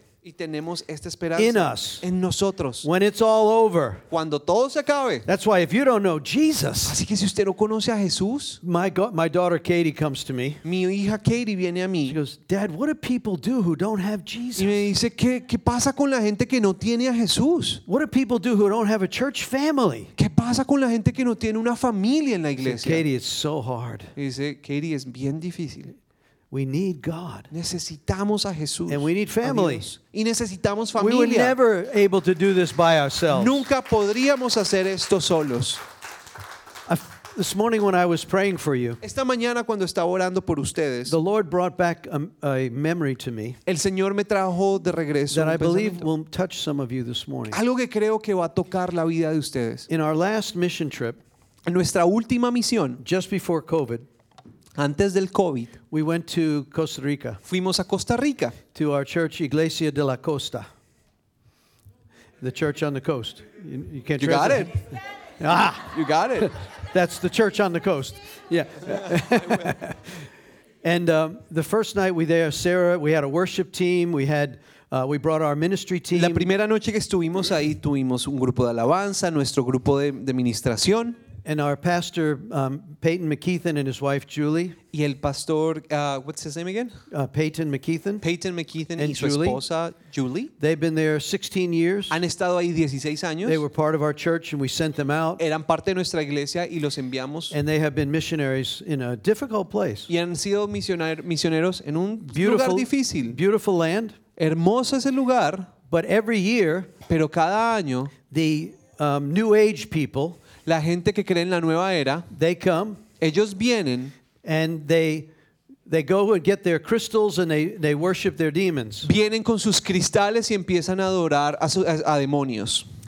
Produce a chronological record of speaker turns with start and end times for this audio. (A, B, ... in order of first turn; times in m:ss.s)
0:00.2-0:02.9 A
0:01.4-0:02.1 B
0:02.8-0:04.0 B
0:04.1-0:05.3 A
0:05.3-0:07.0 B
0:06.8-0:08.6 A
0:08.6-0:10.6 B
0:10.6-0:12.2 A
0:12.1-0:14.8 B
0:14.6-0:17.8 A
0:17.9-0:20.1 B
0:20.2-0:23.0 A
0:22.6-0:24.1 B
0:24.2-0:26.0 A
0:26.5-0:27.5 B
0:27.5-0:31.6 A
0:28.9-0:29.9 B
0:31.0-0:33.7 B
0:33.3-0:35.8 A
0:36.9-0:39.0 B
0:39.0-0:41.2 A
0:41.1-0:43.6 B
0:43.7-0:46.1 A
0:45.3-0:47.6 B
0:47.5-0:49.9 A
0:49.9-0:51.2 B
0:51.7-0:53.0 A
0:53.0-0:54.1 B
0:54.8-0:55.7 A
0:55.9-0:57.4 B
0:57.5-0:58.6 A
0:58.7-1:00.7 B
1:02.4-1:04.8 B
1:04.2-1:04.8 A
1:05.4-1:10.3 B
1:05.9-1:06.5 A
1:10.8-1:16.5 B
1:16.1-1:21.2 A
1:21.4-1:24.8 B
1:24.9-1:27.0 A
1:27.1-1:28.2 B
1:28.2-1:30.5 A
1:29.0-1:29.6 B
1:30.6-1:32.2 B
1:32.1-1:33.6 A
1:33.4-1:35.4 B
1:35.4-1:37.6 A
1:37.5-1:40.1 B
1:40.1-1:43.4 A
1:42.3-1:44.2 B
1:44.4-1:45.7 A
1:45.9-1:46.9 B
1:47.1-1:48.1 A
1:48.3-1:50.4 B
1:50.6-1:52.3 A
1:52.3-1:53.0 B
1:53.2-1:54.1 A
1:54.4-1:55.3 B
1:55.9-1:59.1 B
1:59.0-2:02.9 A